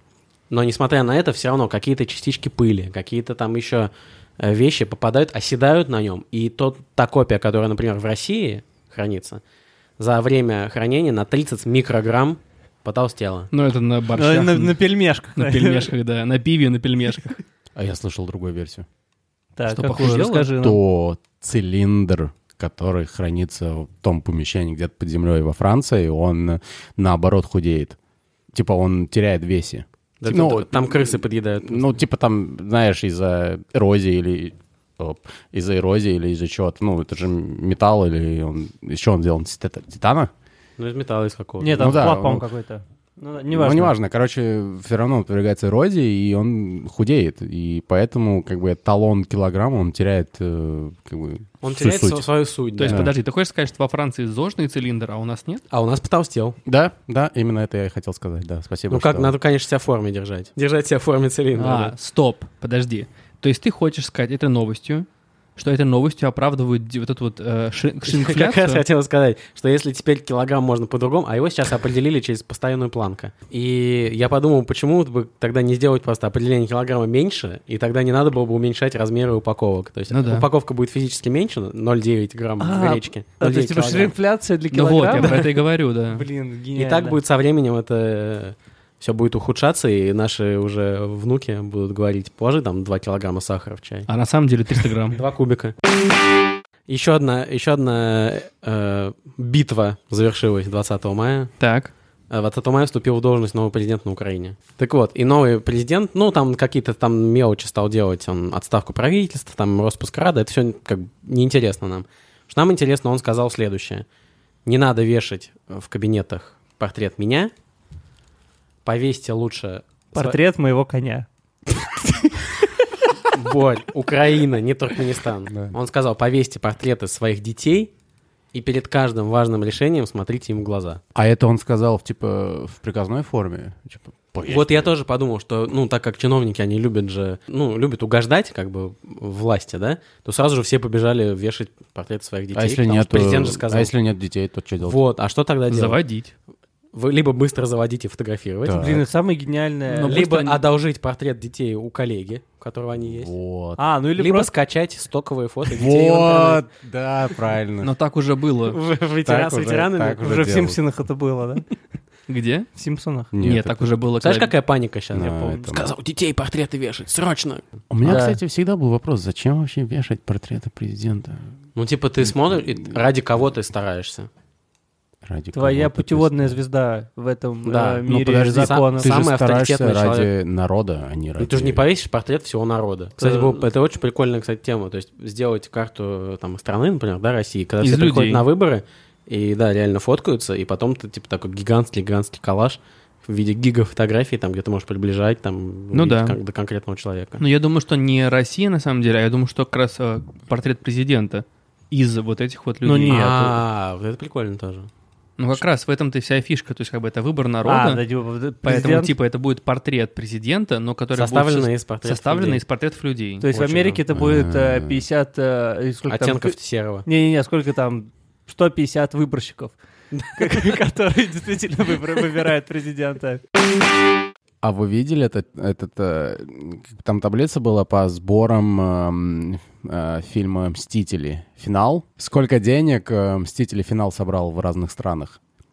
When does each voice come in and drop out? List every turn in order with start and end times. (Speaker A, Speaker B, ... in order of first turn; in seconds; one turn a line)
Speaker A: 0.5-9.4
Speaker A: 10.0-13.5
Speaker B: 13.5-17.4
Speaker C: 14.1-15.9
Speaker D: 17.7-18.9
Speaker C: 19.6-20.8
Speaker B: 19.7-20.5
Speaker D: 20.5-27.9
Speaker D: 28.5-40.3
Speaker A: 30.2-32.0
Speaker A: 40.8-42.0
Speaker C: 41.6-43.9
Speaker D: 41.7-42.5
Speaker D: 43.5-52.3
Speaker A: 51.6-53.1
Speaker B: 52.8-55.6
Speaker D: 52.9-53.1
Speaker A: 55.7-56.6
Speaker D: 56.6-59.3
Speaker A: 58.9-61.9
Speaker B: 61.5-68.8
Speaker A: 68.0-84.1
Speaker B: 80.1-80.5
Speaker C: 82.6-85.6
Speaker B: 84.7-86.2
Speaker C: 86.1-87.2
Speaker A: 86.7-94.1
Speaker B: 94.1-95.2
Speaker A: 95.1-95.7
Speaker A: 96.9-101.5
Speaker B: 101.6-101.9
Speaker A: 102.3-114.0
Speaker A: 114.6-117.5
Speaker A: 118.8-120.4
Speaker C: 120.1-121.3
Speaker A: 123.3-127.9
Speaker D: 125.5-125.7
Speaker A: 128.5-131.0
Speaker D: 131.1-134.9
Speaker A: 134.4-143.9
Speaker D: 142.5-145.0
Speaker A: 144.8-146.0
Speaker B: 145.7-146.3
Speaker A: 146.9-149.0
Speaker D: 148.6-149.1
Speaker C: 148.8-150.3
Speaker B: 149.9-150.6
Speaker A: 150.0-153.3
Speaker D: 153.0-153.8
Speaker C: 153.8-154.5
Speaker A: 154.2-156.6
Speaker D: 155.7-157.9
Speaker B: 157.8-158.8
Speaker A: 158.7-160.3
Speaker D: 159.2-160.8
Speaker C: 160.2-161.7
Speaker B: 162.3-162.7
Speaker C: 162.8-163.3
Speaker D: 163.3-163.8
Speaker B: 163.4-164.5
Speaker A: 164.2-167.7
Speaker D: 165.1-165.9
Speaker D: 167.9-171.5
Speaker C: 168.0-168.4
Speaker A: 171.8-174.3
Speaker D: 175.2-176.6
Speaker C: 175.5-179.1
Speaker A: 177.6-180.3
Speaker D: 178.1-181.8
Speaker A: 181.4-197.4
Speaker C: 183.2-183.6
Speaker B: 187.8-188.4
Speaker B: 195.9-196.4
Speaker B: 197.4-203.3
Speaker C: 202.8-203.6
Speaker A: 203.1-204.9
Speaker B: 205.4-208.0
Speaker C: 207.6-209.1
Speaker B: 208.6-213.5
Speaker A: 211.1-212.6
Speaker C: 213.4-216.5
Speaker A: 213.5-214.0
Speaker D: 214.1-215.0
Speaker A: 216.1-217.1
Speaker C: 217.1-219.7
Speaker C: 220.3-223.4
Speaker D: 224.6-235.4